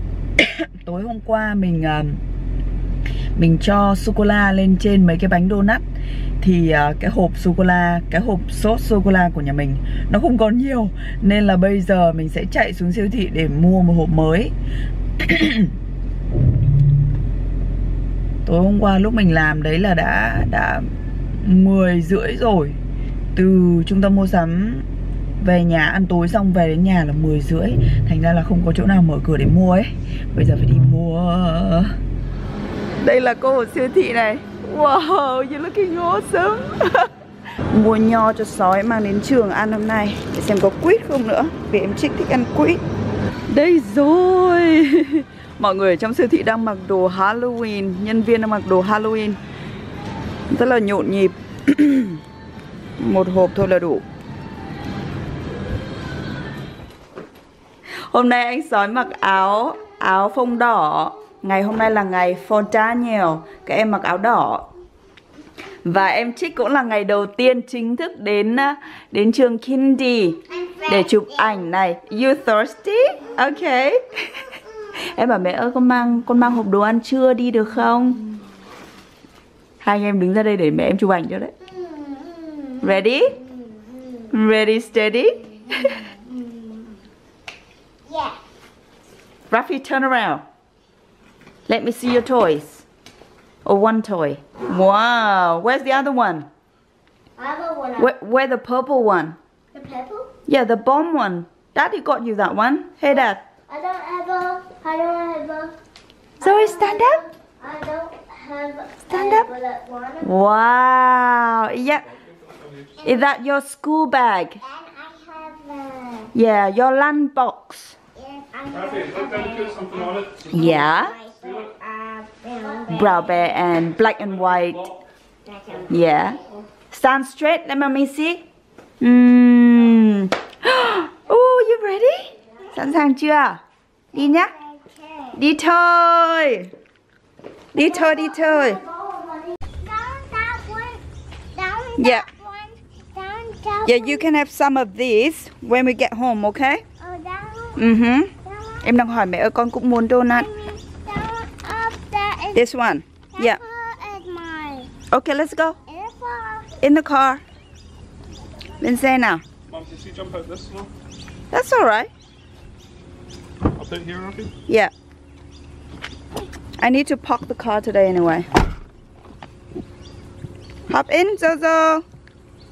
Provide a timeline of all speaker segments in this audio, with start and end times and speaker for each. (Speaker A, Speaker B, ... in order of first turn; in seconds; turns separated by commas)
Speaker A: 0.4-2.2, Speaker A: 3.4-5.8, Speaker A: 6.4-14.5, Speaker A: 15.2-15.7, Speaker A: 18.4-22.8, Speaker A: 23.3-24.9, Speaker A: 25.4-31.9, Speaker A: 33.0-37.1, Speaker A: 37.7-42.8, Speaker A: 43.5-49.4, Speaker A: 50.5-52.2, Speaker A: 53.0-54.0, Speaker A: 58.1-64.7, Speaker A: 65.8-78.2, Speaker A: 79.8-81.5, Speaker B: 81.7-82.9, Speaker A: 82.8-83.3, Speaker A: 84.3-86.0, Speaker B: 88.1-88.4, Speaker A: 89.5-90.4, Speaker A: 91.7-92.8, Speaker A: 93.6-96.5, Speaker B: 97.4-98.1, Speaker A: 98.0-99.4, Speaker B: 99.7-100.3, Speaker A: 100.5-103.4, Speaker B: 103.7-105.7, Speaker A: 106.4-107.2, Speaker B: 106.4-110.2, Speaker A: 109.1-109.5, Speaker A: 110.2-112.1, Speaker A: 113.0-114.6, Speaker B: 114.7-116.3, Speaker A: 116.3-118.0, Speaker B: 118.2-123.1, Speaker A: 120.5-121.2, Speaker A: 122.9-124.9, Speaker B: 125.5-125.9, Speaker A: 125.9-128.4, Speaker A: 129.0-133.6, Speaker A: 134.1-134.5, Speaker B: 134.3-135.4, Speaker A: 135.3-136.7, Speaker A: 137.7-138.8, Speaker B: 137.8-141.0, Speaker B: 141.5-144.2, Speaker A: 142.0-142.2, Speaker A: 143.8-146.8, Speaker B: 147.0-147.8, Speaker A: 147.8-148.3, Speaker A: 148.8-150.5, Speaker B: 150.3-152.6, Speaker A: 152.5-153.6, Speaker B: 153.4-154.9, Speaker A: 155.1-155.8, Speaker B: 155.8-156.8, Speaker A: 156.8-157.4, Speaker A: 158.8-159.4, Speaker C: 159.7-160.9, Speaker A: 161.5-162.1, Speaker C: 163.7-164.5, Speaker A: 166.8-168.5, Speaker A: 170.9-172.0